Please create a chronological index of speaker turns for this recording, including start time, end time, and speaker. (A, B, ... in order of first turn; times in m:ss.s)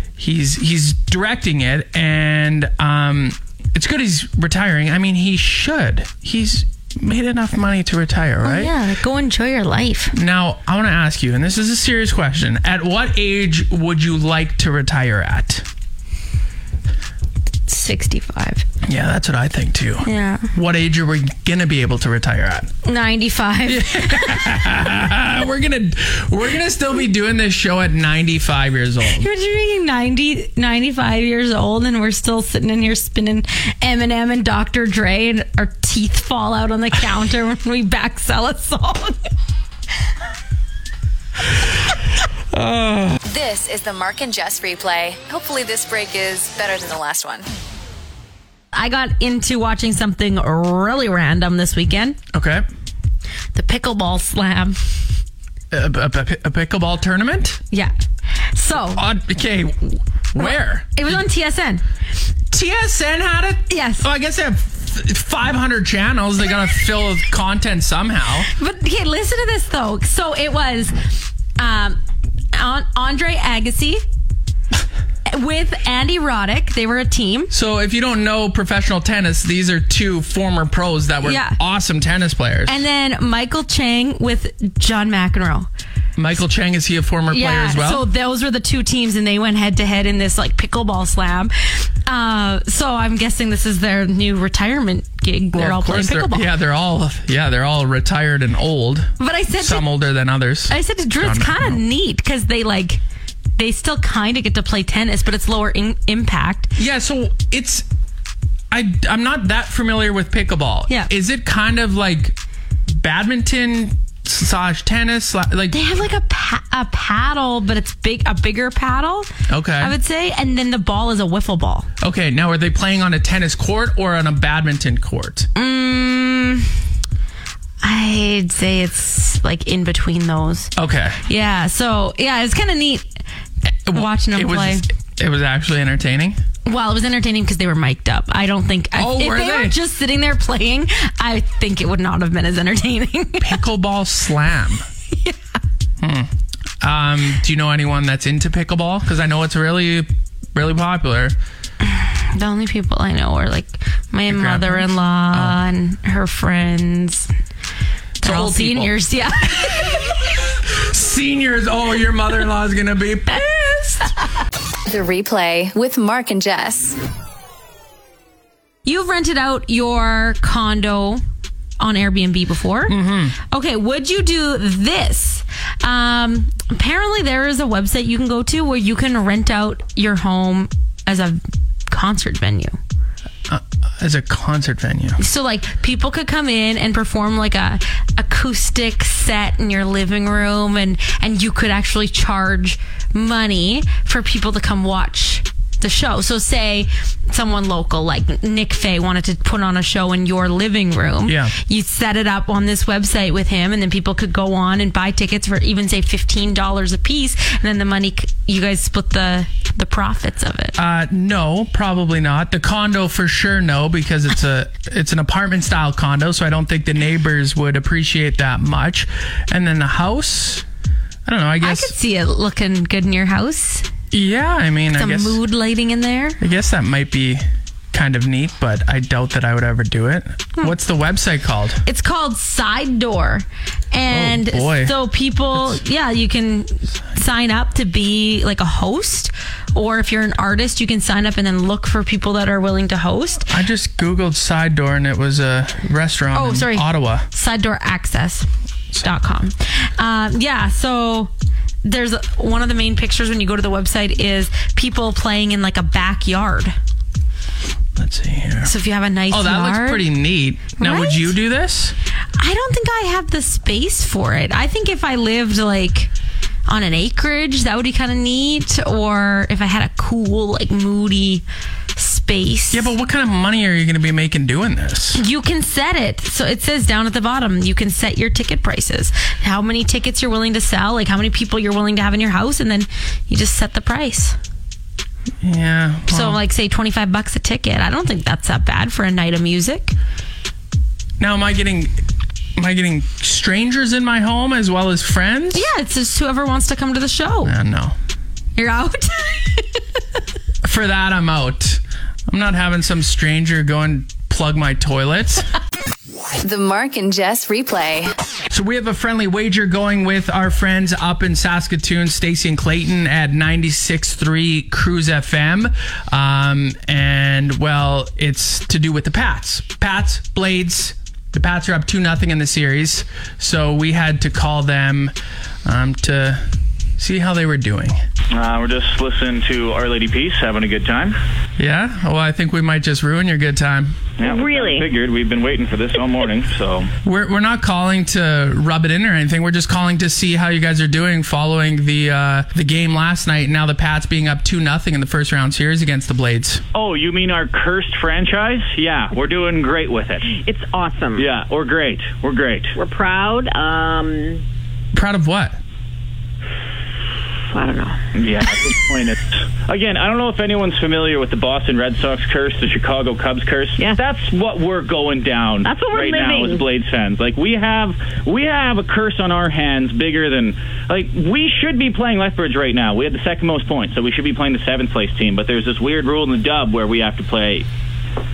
0:00.2-0:08.7 A
0:08.4-0:10.1 B
0:10.1-0:15.6 A
0:17.7-0:18.6 B
0:18.8-0:22.7 A
0:20.0-0:20.5 B
0:22.8-0:24.4 B
0:23.6-0:29.3 A
0:29.1-0:39.2 B
0:42.5-0:43.2 A
0:43.2-0:47.5 C
0:48.7-0:52.2 B
0:52.3-0:52.6 A
0:53.5-0:54.8 B
0:55.7-0:57.6 A
0:58.5-0:59.0 B
0:58.9-1:01.1 A
1:00.4-1:01.8 B
1:02.5-1:08.5 A
1:03.7-1:04.1 B
1:08.5-1:11.0 B
1:11.6-1:12.0 B
1:12.5-1:14.0 B
1:15.3-1:17.5 B
1:17.5-1:22.8 A
1:21.2-1:21.6 B
1:22.6-1:25.7 B
1:26.2-1:28.1 A
1:27.3-1:36.5 B
1:35.5-1:41.8 A
1:39.2-1:39.8 B
1:40.7-1:43.0 B
1:43.6-1:46.7 B
1:46.8-1:47.8 A
1:48.7-1:52.4 A
1:52.9-1:55.8 A
1:55.7-2:01.9 B
1:59.5-1:59.9 A
2:02.0-2:05.5 A
2:05.5-2:06.7 B
2:07.8-2:10.7 B
2:10.8-2:11.2 A
2:11.3-2:13.1 B
2:13.9-2:16.4 A
2:13.9-2:14.8 B
2:16.6-2:23.6 B
2:18.9-2:19.8 A
2:23.4-2:24.8 A
2:25.1-2:25.6 B
2:26.0-2:31.4 A
2:31.8-2:37.3 B
2:34.3-2:35.6 A
2:38.2-2:40.1 B
2:38.2-2:38.9 A
2:40.7-2:43.7 A
2:43.4-2:44.0 B
2:44.9-2:47.0 C
2:48.8-2:51.2 B
2:51.8-2:53.0 B
2:52.9-2:53.4 A
2:53.5-3:02.8 B
3:03.5-3:05.2 A
3:05.2-3:30.8 B
3:21.2-3:21.5 A
3:30.8-3:40.6 A
3:41.2-3:41.9 A
3:41.6-3:43.9 B
3:44.1-3:45.4 A
3:44.9-3:46.4 B
3:46.4-3:51.8 A
3:51.8-4:03.5 B
3:54.1-3:54.9 A
3:55.5-3:55.8 A
4:03.5-4:07.2 A
4:06.3-4:08.5 B
4:09.0-4:11.3 B
4:11.8-4:16.7 B
4:17.9-4:18.7 A
4:18.6-4:20.0 B
4:19.3-4:22.0 A
4:20.8-4:21.3 B
4:22.4-4:26.1 B
4:26.7-4:31.4 B
4:32.0-4:32.9 B
4:32.7-4:35.2 A
4:35.1-4:44.4 B
4:45.4-4:46.4 A
4:46.1-4:49.9 B
4:51.2-4:51.9 A
4:52.6-4:55.7 A
4:55.5-4:57.5 B
4:57.4-4:58.0 A
4:58.6-4:59.8 B
5:00.6-5:05.5 A
5:06.4-5:08.1 C
5:08.5-5:26.4 A
5:27.0-5:28.0 A
5:28.3-5:31.2 D
5:31.6-5:34.0 A
5:34.2-5:36.9 D
5:34.2-5:34.9 E
5:37.0-5:46.6 A
5:46.7-5:50.3 D
5:50.3-5:51.3 E
5:51.2-5:52.7 D
5:52.8-5:54.4 E
5:54.9-5:55.6 A
5:57.5-5:58.0 E
5:58.1-6:17.7 D
6:05.6-6:06.6 E